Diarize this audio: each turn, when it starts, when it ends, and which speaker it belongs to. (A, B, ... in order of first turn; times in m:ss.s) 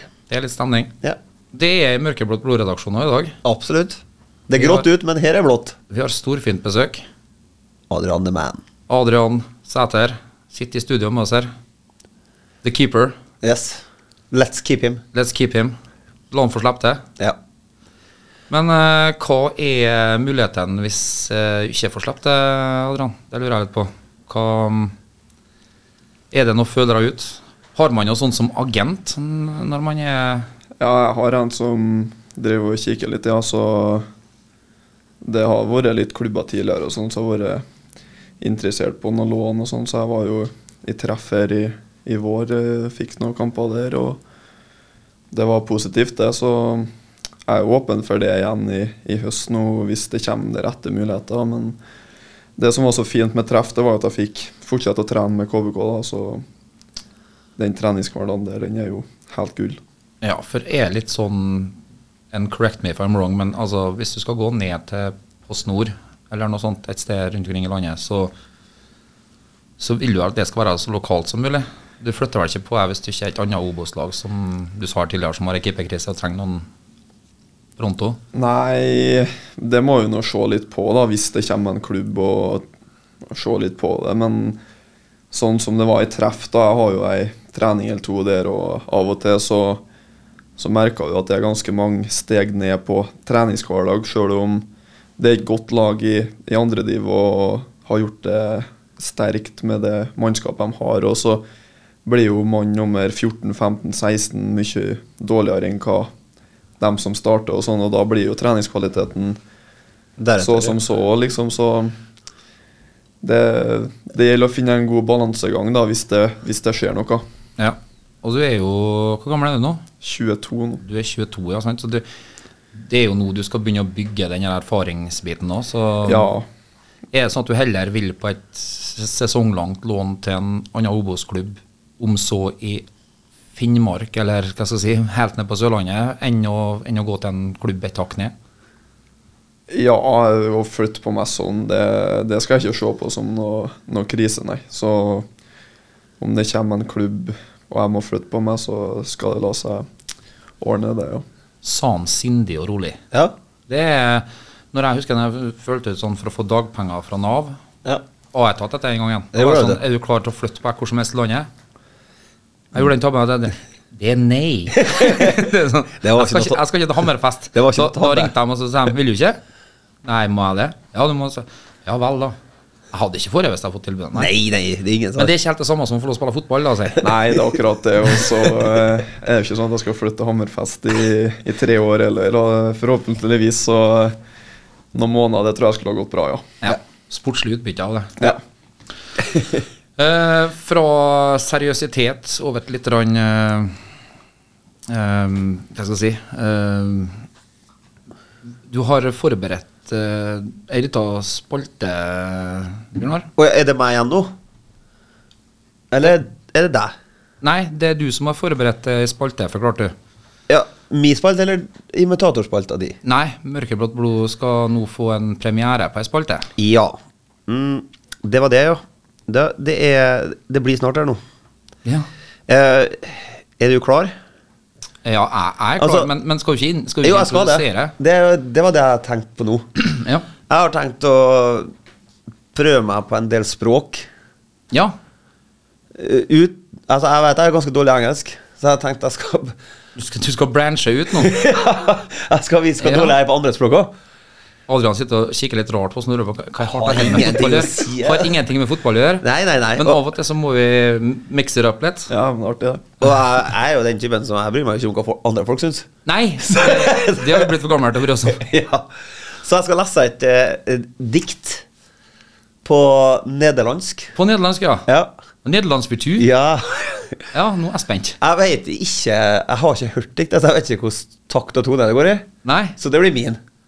0:00.3-0:00.9 A
0:01.5-0:03.3 A
0:03.4-0:05.8 B
0:04.6-0:04.8 A
0:05.9-0:07.0 A
0:07.9-0:08.6 B
0:08.9-0:11.5 A
0:12.6-0:13.2 A
0:13.4-0:15.0 B
0:15.1-0:15.8 A
0:16.3-0:17.0 A
0:18.5-0:24.9 A
0:26.3-0:30.5 A
0:30.8-0:34.0 C
0:35.2-0:37.6 C
0:38.4-0:44.2 C
0:45.3-0:46.9 C
0:47.5-0:51.8 C
0:52.6-0:56.4 C
0:57.6-0:59.8 C
1:00.2-1:01.8 A
1:02.3-1:08.3 A
1:09.8-1:16.6 A
1:17.8-1:18.2 A
1:18.3-1:22.7 C
1:23.3-1:24.6 C
1:25.3-1:29.8 C
1:30.6-1:34.7 C
1:35.2-1:41.4 C
1:42.0-1:46.1 C
1:46.8-1:49.4 C
1:50.2-1:50.8 B
1:50.4-1:52.0 C
1:53.2-1:57.2 C
1:57.6-1:59.8 A
2:00.0-2:00.8 C
2:00.8-2:02.0 A
2:02.7-2:06.3 A
2:06.0-2:06.4 C
2:07.1-2:12.8 A
2:13.6-2:18.3 A
2:19.7-2:25.3 C
2:26.2-2:29.9 C
2:30.6-2:31.2 C
2:31.6-2:33.0 A
2:33.7-2:37.6 A
2:38.3-2:41.5 A
2:39.3-2:39.8 B
2:42.7-2:49.4 A
2:44.9-2:45.4 B
2:46.0-2:46.6 B
2:47.5-2:48.3 B
2:50.0-2:52.4 A
2:52.9-2:54.3 A
2:54.2-2:55.3 B
2:55.2-2:57.0 A
2:57.0-3:04.2 C
3:04.9-3:06.5 C
3:06.6-3:08.3 A
3:10.0-3:13.8 A
3:14.9-3:17.2 A
3:18.7-3:23.3 A
3:23.4-3:24.3 B
3:25.9-3:26.9 B
3:27.4-3:29.9 A
3:30.5-3:33.0 B
3:33.0-3:36.5 A
3:36.6-3:37.0 B
3:37.5-3:41.2 B
3:42.5-3:44.1 B
3:45.0-3:47.9 A
3:45.8-3:46.1 B
3:47.0-3:49.7 B
3:49.8-3:50.3 A
3:50.5-3:51.7 B
3:52.5-3:54.0 B
3:54.7-3:55.0 A
3:55.9-3:59.6 B
4:00.0-4:01.4 A
4:01.2-4:03.9 B
4:02.8-4:03.2 A
4:04.7-4:09.2 A
4:06.6-4:08.3 B
4:09.2-4:10.0 B
4:09.8-4:12.1 A
4:12.1-4:12.8 C
4:13.0-4:15.9 B
4:16.0-4:18.4 A
4:16.4-4:17.5 B
4:18.3-4:18.9 B
4:19.4-4:21.6 B
4:22.6-4:24.1 B
4:24.2-4:24.9 A
4:25.4-4:26.3 A
4:26.2-4:27.2 B
4:27.3-4:28.2 A
4:28.2-4:33.4 B
4:32.4-4:32.8 A